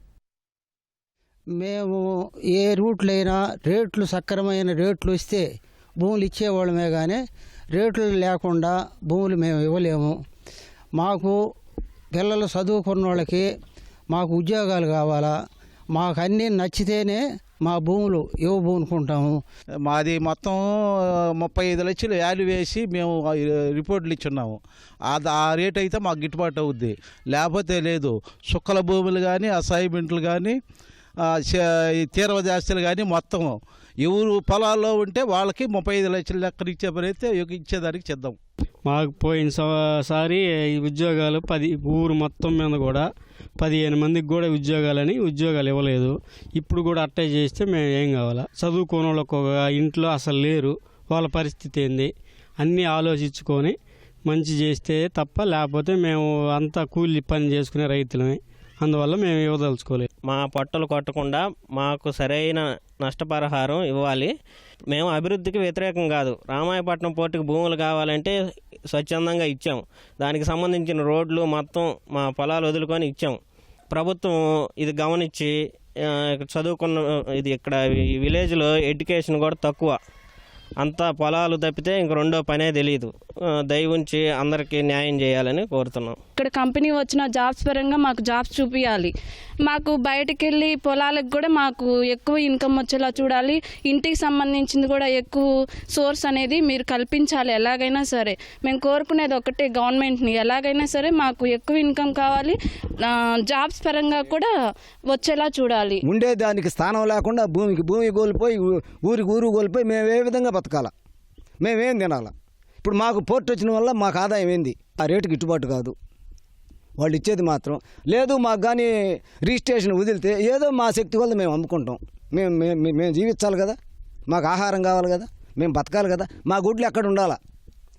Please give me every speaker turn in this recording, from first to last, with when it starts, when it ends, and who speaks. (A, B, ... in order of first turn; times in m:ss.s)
0:01.6-0:05.5 A
0:06.0-0:07.2 A
0:07.7-0:10.2 A
0:10.9-0:11.4 A
0:12.1-0:13.5 A
0:14.1-0:15.3 A
0:15.9-0:19.4 A
0:19.8-0:20.6 B
0:21.4-0:30.6 B
0:31.2-0:38.4 B
0:38.8-0:43.0 C
0:43.6-1:00.1 C
1:00.2-1:04.3 D
1:04.9-1:08.3 D
1:08.9-1:13.4 D
1:13.9-1:15.5 D
1:16.0-1:20.0 D
1:20.8-1:23.1 D
1:23.7-1:26.2 D
1:26.4-1:29.1 E
1:29.6-1:44.5 E
1:45.1-1:46.0 E
1:46.0-1:50.9 F
1:51.6-1:55.9 F
1:57.0-2:07.4 F